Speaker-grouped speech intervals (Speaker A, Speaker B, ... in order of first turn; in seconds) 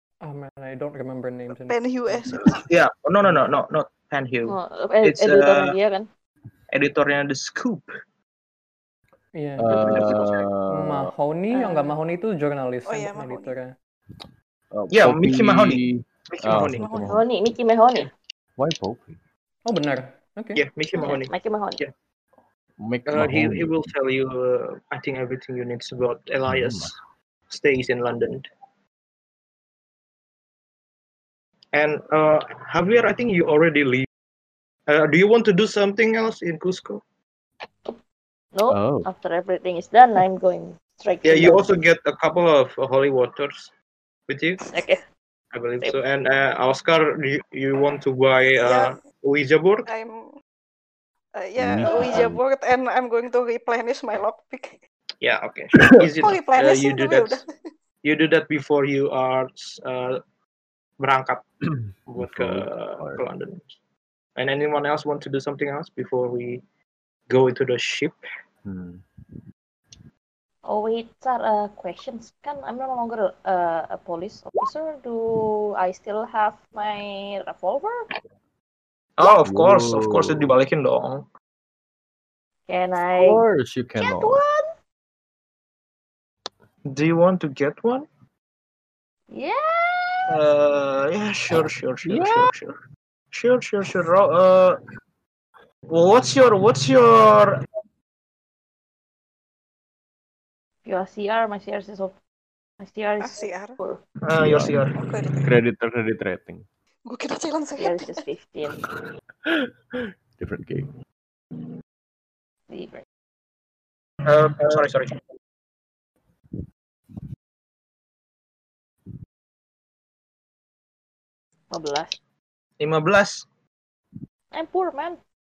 Speaker A: 0.2-2.3, 9.3-10.2, 10.7-13.7, 19.6-20.6
Speaker B: 1.6-2.6, 12.8-13.6, 16.7-17.2, 48.6-48.9, 49.9-50.3, 51.3-54.8, 56.2-57.5, 103.2-103.8, 105.0-105.4, 107.1-108.2
Speaker C: 2.5-5.8, 6.7-7.9, 9.7-10.5, 14.9-17.0, 20.5-21.9, 23.1-27.0, 27.5-28.5, 31.7-34.1, 34.9-37.0, 41.2-43.7, 44.3-44.6, 45.5-49.9, 55.2-57.4, 58.0-60.2, 61.0-61.5, 62.1-63.7, 64.4-66.6, 67.3-68.2, 79.2-81.2, 86.9-88.1, 90.3-92.8, 93.3-94.8, 95.9-97.6, 104.2-105.0, 114.2-115.2, 122.8-123.5
Speaker D: 4.5-6.1, 11.5-11.9, 17.1-18.1, 21.0-21.8, 38.5-41.7, 44.6-45.0, 70.7-78.0, 82.7-83.5, 84.0-84.7, 89.3-90.3, 100.8-102.1, 102.8-104.0, 107.8-108.8, 112.7-113.0, 121.7-122.2, 124.5-125.2
Speaker E: 9.6-11.1, 14.7-17.2, 18.6-19.2, 22.8-23.9, 26.5-26.9, 38.7-39.1, 51.6-52.4, 61.7-63.2, 68.6-69.4, 79.4-80.5, 83.2-84.4, 92.0-92.5, 104.4-104.8, 105.3-106.7, 109.5-110.9